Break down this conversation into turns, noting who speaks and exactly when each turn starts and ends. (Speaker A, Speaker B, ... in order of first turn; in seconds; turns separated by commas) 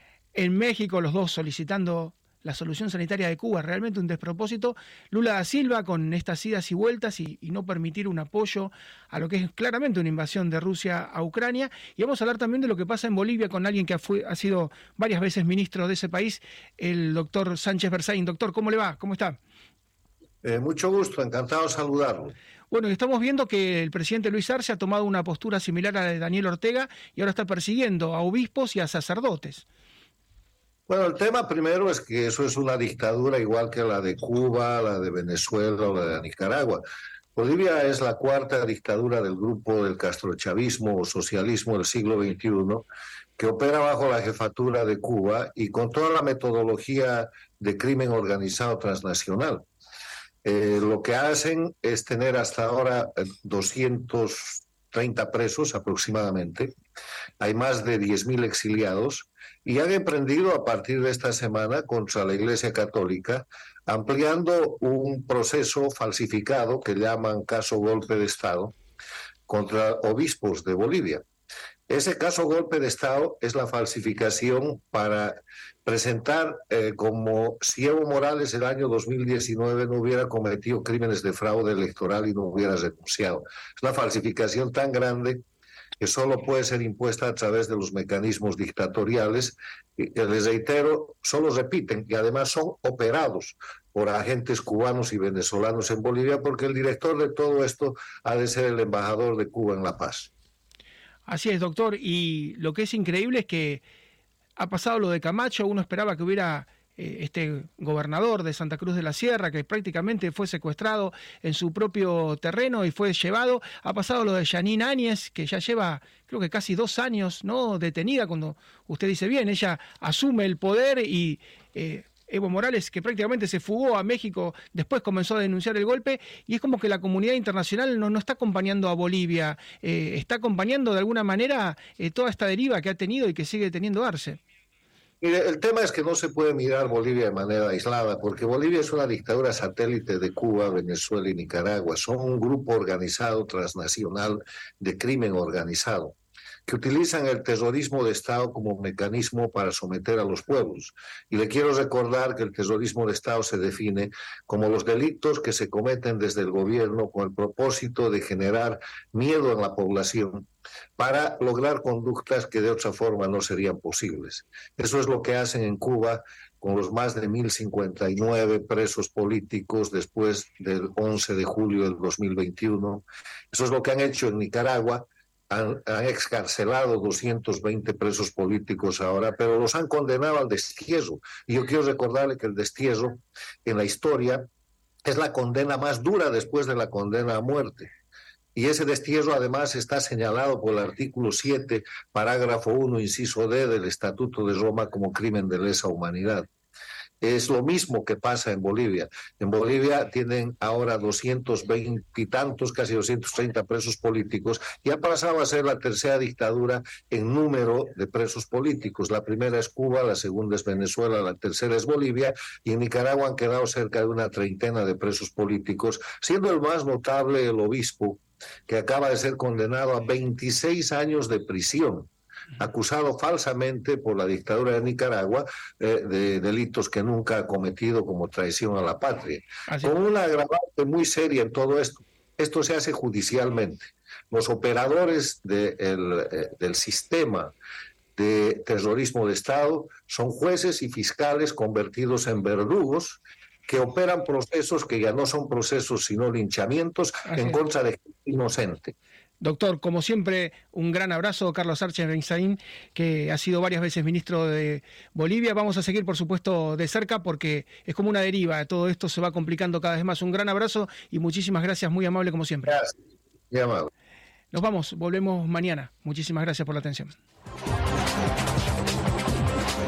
Speaker A: 0.3-19.4, Speaker B: 20.4-22.3, Speaker A: 22.7-29.6, Speaker B: 30.9-36.8, Speaker B: 37.4-42.9, Speaker B: 43.4-49.6, Speaker B: 50.4-56.7, Speaker B: 57.4-68.8, Speaker B: 69.5-71.2, Speaker B: 71.9-85.4, Speaker B: 86.0-100.3, Speaker A: 101.3-103.8, Speaker A: 104.6-134.4, Speaker B: 135.2-146.2, Speaker B: 146.7-160.5, Speaker B: 161.0-184.5, Speaker B: 185.0-187.9, Speaker B: 188.5-196.5, Speaker B: 197.2-237.5, Speaker A: 229.7-229.9, Speaker B: 238.2-248.9, Speaker A: 247.2-247.6, Speaker A: 249.4-262.8, Speaker B: 262.7-262.9, Speaker B: 263.5-263.9, Speaker A: 264.5-267.1